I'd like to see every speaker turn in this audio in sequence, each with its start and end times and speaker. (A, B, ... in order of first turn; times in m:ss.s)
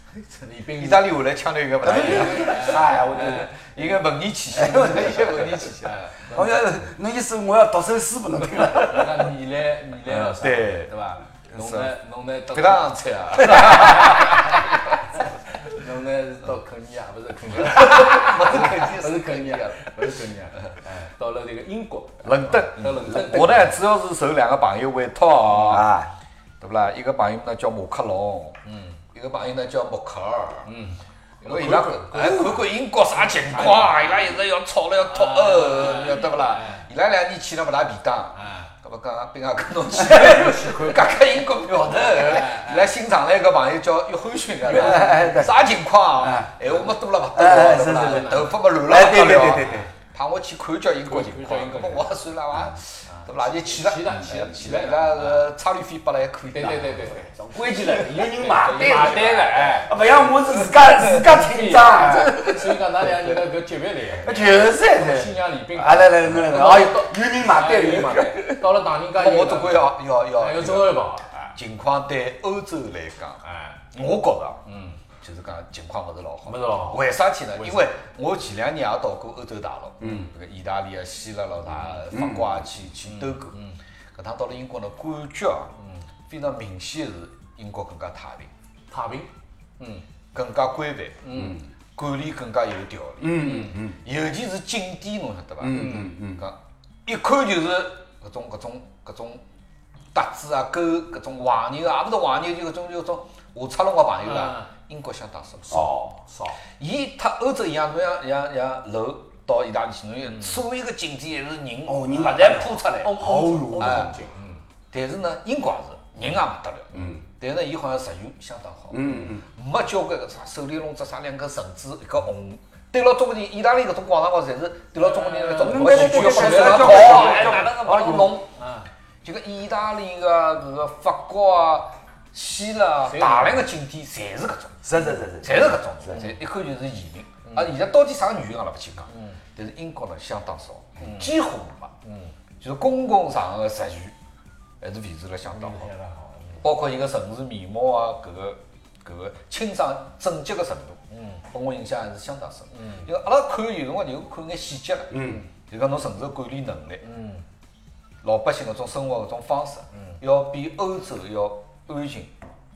0:00.4-0:01.2 A
0:00.8-0:06.3 B
0:01.8-0:03.6 A
0:01.9-0:03.4 C
0:04.6-0:05.6 C
0:04.6-0:06.4 A
0:06.3-0:09.2 C
0:08.7-0:23.8 A
0:10.1-0:10.9 B
0:11.5-0:11.9 B
0:12.5-0:15.0 B
0:17.6-0:19.9 B
0:22.2-0:25.9 B
0:25.7-0:26.1 C
0:26.6-0:28.6 B
0:28.6-0:29.0 A
0:29.1-0:30.7 B
0:30.6-0:34.4 A
0:31.4-0:57.9 B
0:35.1-0:36.9 A
0:38.3-0:38.7 A
0:40.0-0:42.9 A
0:44.6-0:45.6 C
0:44.7-0:45.3 A
0:46.2-0:46.6 C
0:47.3-0:49.9 C
0:47.9-0:48.5 A
0:51.0-0:52.1 A
0:53.1-0:55.4 A
0:56.5-1:00.0 A
0:57.5-1:02.8 C
0:58.6-0:59.9 B
1:01.1-1:11.5 A
1:04.2-1:08.6 C
1:09.1-1:14.6 B
1:13.4-1:13.9 A
1:14.6-1:15.0 A
1:15.2-1:23.6 B
1:16.5-1:17.8 A
1:20.0-1:20.3 C
1:21.8-1:22.5 C
1:23.0-1:23.8 A
1:24.1-1:25.7 B
1:25.8-1:26.0 A
1:26.3-1:28.5 B
1:28.9-1:30.0 A
1:30.3-1:31.3 B
1:31.2-1:31.6 A
1:31.3-1:31.6 C
1:31.9-1:39.4 B
1:33.2-1:34.0 C
1:33.4-1:33.8 A
1:35.6-1:36.4 C
1:35.7-1:36.2 A
1:40.1-1:45.8 B
1:44.2-1:44.7 A
1:45.6-1:46.6 A
1:45.7-1:46.1 C
1:46.8-1:54.1 B
1:51.8-1:54.1 C
1:53.0-1:54.6 A
1:54.9-2:08.5 B
1:56.9-1:57.2 C
1:58.9-1:59.4 C
2:05.0-2:07.7 A
2:05.6-2:08.4 C
2:08.6-2:08.9 A
2:09.2-2:14.8 B
2:13.1-2:13.7 A
2:14.8-2:16.2 C
2:15.4-2:21.9 B
2:17.4-2:17.7 A
2:19.1-2:19.4 A
2:21.0-2:21.3 A
2:22.0-2:22.3 A
2:22.6-2:24.1 B
2:24.8-2:25.9 B
2:25.5-2:26.6 A
2:26.6-2:37.0 B
2:31.1-2:31.4 A
2:32.7-2:33.1 A
2:35.1-2:35.4 C
2:37.0-2:37.4 A
2:38.2-2:42.3 B